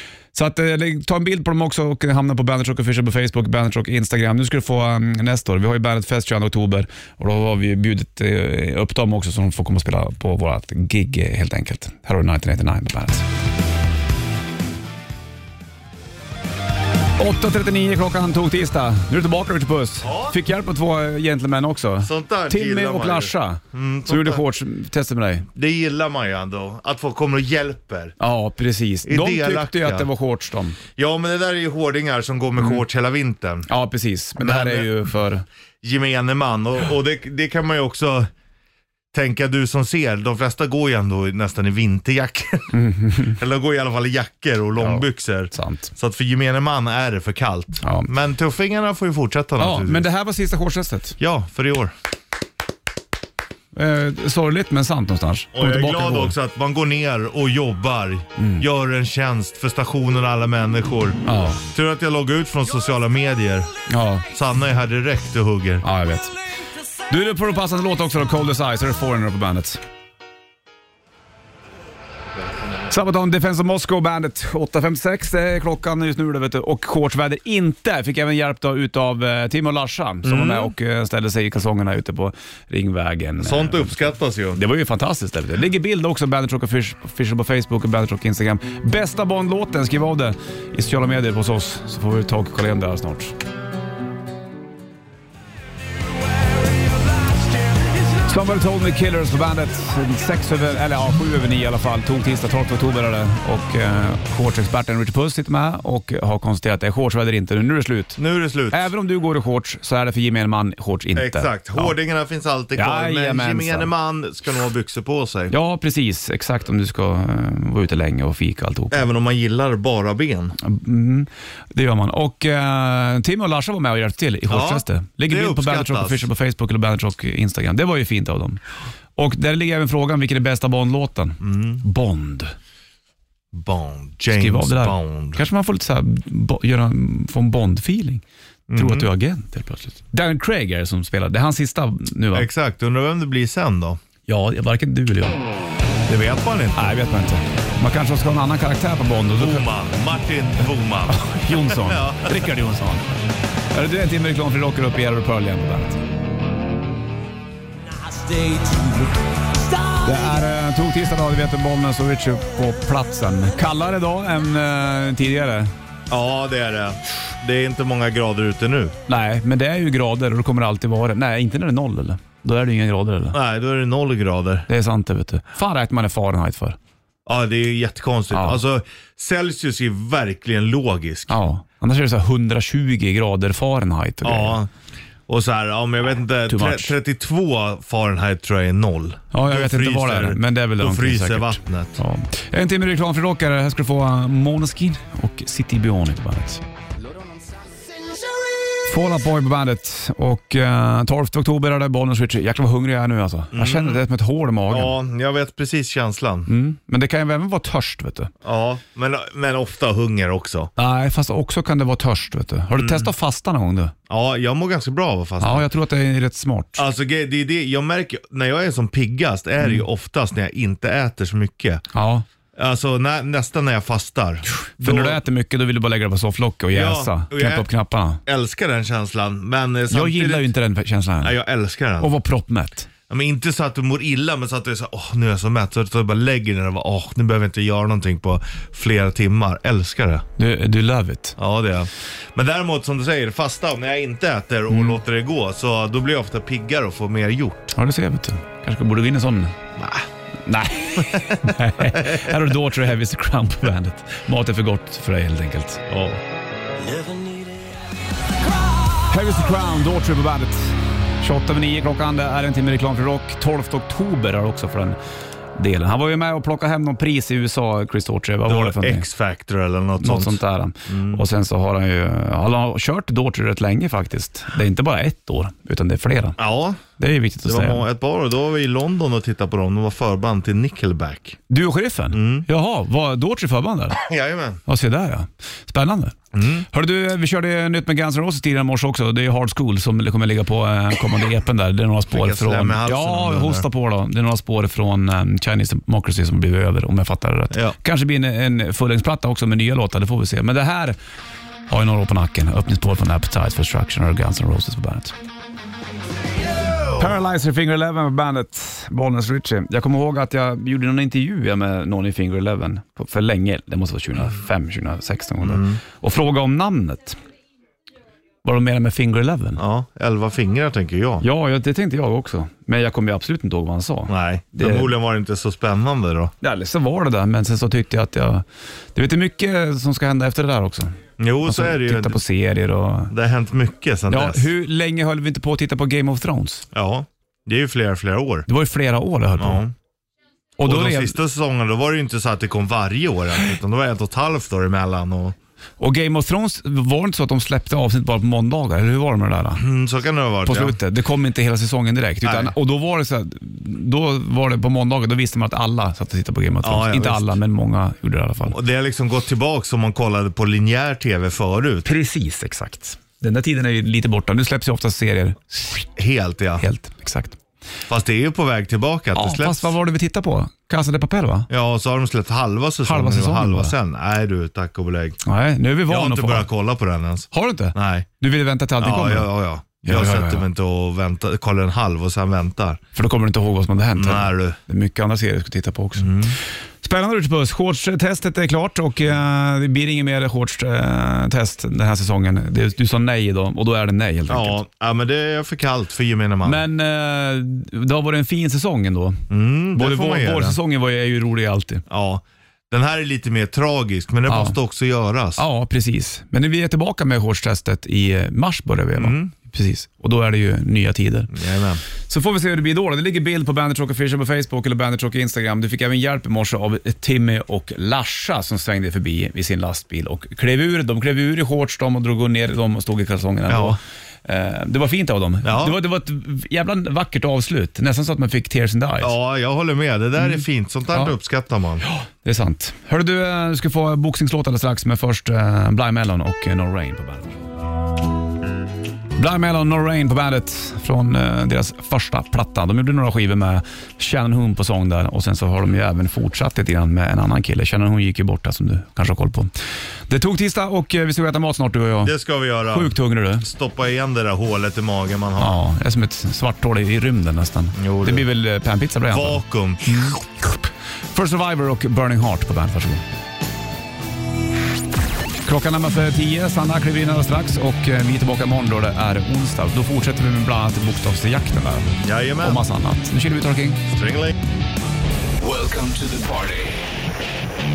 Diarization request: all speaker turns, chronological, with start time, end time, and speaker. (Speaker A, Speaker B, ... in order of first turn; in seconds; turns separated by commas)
Speaker A: 0.3-13.2, Speaker A: 17.2-25.5, Speaker B: 20.0-20.4, Speaker B: 22.0-24.4, Speaker B: 25.6-28.1, Speaker A: 28.2-30.8, Speaker B: 29.1-30.1, Speaker B: 31.0-33.7, Speaker A: 33.7-35.5, Speaker B: 34.4-35.1, Speaker B: 35.8-38.3, Speaker B: 39.1-42.7, Speaker A: 42.7-43.4, Speaker B: 43.2-50.1, Speaker A: 44.8-45.9, Speaker A: 47.8-48.1, Speaker A: 49.6-51.2, Speaker B: 51.2-51.9, Speaker A: 53.7-56.4, Speaker B: 55.5-61.2, Speaker A: 58.4-58.7, Speaker A: 61.2-61.6, Speaker B: 61.7-63.7, Speaker A: 63.9-64.3, Speaker B: 64.3-65.8, Speaker A: 65.8-66.3, Speaker A: 67.1-69.8, Speaker A: 72.9-93.3, Speaker B: 80.2-80.7, Speaker B: 83.4-84.6, Speaker A: 98.2-108.2, Speaker B: 108.2-108.9, Speaker A: 108.7-111.9, Speaker B: 111.2-115.5, Speaker A: 112.8-113.9, Speaker A: 115.5-119.1, Speaker B: 118.9-120.5, Speaker A: 120.6-128.6, Speaker B: 124.5-126.3, Speaker A: 129.2-132.5, Speaker B: 131.4-131.8, Speaker B: 133.5-135.4, Speaker A: 134.3-138.2, Speaker B: 138.7-139.1, Speaker A: 138.7-142.5, Speaker B: 142.3-144.0, Speaker A: 144.3-145.4, Speaker B: 146.1-146.9, Speaker A: 146.8-149.7, Speaker B: 149.4-152.5, Speaker A: 151.1-156.0, Speaker C: 158.3-159.1, Speaker A: 160.0-165.7, Speaker B: 166.1-168.9, Speaker A: 169.1-173.4, Speaker B: 173.3-174.7, Speaker A: 174.7-176.8, Speaker B: 177.3-181.4, Speaker A: 178.3-178.6, Speaker A: 181.3-184.6, Speaker B: 184.2-184.7, Speaker B: 185.3-192.0, Speaker A: 186.5-187.0, Speaker A: 189.3-196.6, Speaker A: 198.9-204.9, Speaker B: 203.5-204.0, Speaker B: 204.7-206.5, Speaker A: 206.5-208.3, Speaker B: 208.4-210.7, Speaker A: 210.8-213.9, Speaker B: 212.8-213.1, Speaker B: 214.1-215.7, Speaker A: 215.4-216.8, Speaker B: 216.8-221.8, Speaker A: 221.9-222.2, Speaker B: 222.6-225.2, Speaker A: 224.5-228.2, Speaker B: 226.7-227.7, Speaker B: 228.3-230.5, Speaker A: 229.9-231.4, Speaker B: 231.2-232.1, Speaker A: 232.0-232.9, Speaker B: 233.1-240.3, Speaker A: 240.4-241.4, Speaker B: 241.4-247.7, Speaker A: 244.7-245.0, Speaker A: 247.8-249.6, Speaker B: 249.8-250.1, Speaker A: 250.4-256.2, Speaker B: 251.0-252.3, Speaker C: 256.9-257.5, Speaker A: 259.1-265.0, Speaker A: 265.6-269.1, Speaker B: 268.5-271.2, Speaker A: 270.0-276.4, Speaker B: 276.4-276.8, Speaker A: 277.0-277.8, Speaker B: 277.4-281.4, Speaker A: 281.5-284.0, Speaker B: 282.1-282.5, Speaker B: 284.0-284.6, Speaker A: 284.7-286.2, Speaker B: 286.3-286.7, Speaker A: 286.7-301.0, Speaker B: 292.1-293.6, Speaker A: 301.7-305.1, Speaker A: 306.9-317.2, Speaker B: 315.4-315.8, Speaker A: 318.4-319.6, Speaker B: 319.6-321.2, Speaker A: 321.2-324.9, Speaker B: 324.1-326.3, Speaker A: 326.4-333.1, Speaker B: 331.2-332.2, Speaker B: 333.1-334.5, Speaker A: 334.1-336.7, Speaker B: 336.7-338.5, Speaker A: 338.5-339.6, Speaker B: 339.4-339.7, Speaker A: 340.6-341.2, Speaker B: 340.6-345.4, Speaker A: 345.8-349.6, Speaker B: 349.6-350.8, Speaker A: 350.4-358.6, Speaker B: 352.2-352.5, Speaker B: 356.6-357.4, Speaker B: 358.5-361.9, Speaker A: 361.9-365.9, Speaker B: 366.0-366.6, Speaker A: 366.6-367.4, Speaker B: 367.9-369.8, Speaker A: 369.1-371.5, Speaker B: 371.5-375.2, Speaker A: 372.9-373.8, Speaker A: 375.2-376.5, Speaker B: 375.9-378.1, Speaker A: 377.3-379.3, Speaker B: 378.8-382.8, Speaker A: 379.8-380.4, Speaker A: 382.9-394.6, Speaker B: 384.0-384.6, Speaker B: 386.0-386.4, Speaker B: 394.3-396.6, Speaker A: 396.4-401.9, Speaker B: 399.3-400.6, Speaker B: 401.9-405.4, Speaker A: 404.3-404.6, Speaker A: 405.4-411.3, Speaker B: 409.0-409.3, Speaker B: 411.3-411.8, Speaker A: 412.0-429.1, Speaker B: 423.5-423.8, Speaker B: 425.4-425.8, Speaker B: 429.0-431.8, Speaker A: 430.2-431.1, Speaker A: 431.8-437.4, Speaker A: 439.2-449.5, Speaker A: 450.1-452.1, Speaker B: 452.0-455.6, Speaker A: 452.7-453.5, Speaker A: 455.4-460.2, Speaker B: 457.8-458.3, Speaker B: 459.1-460.2, Speaker A: 461.1-463.0, Speaker A: 465.4-473.8, Speaker B: 472.0-472.7, Speaker B: 473.9-474.4, Speaker C: 475.4-476.8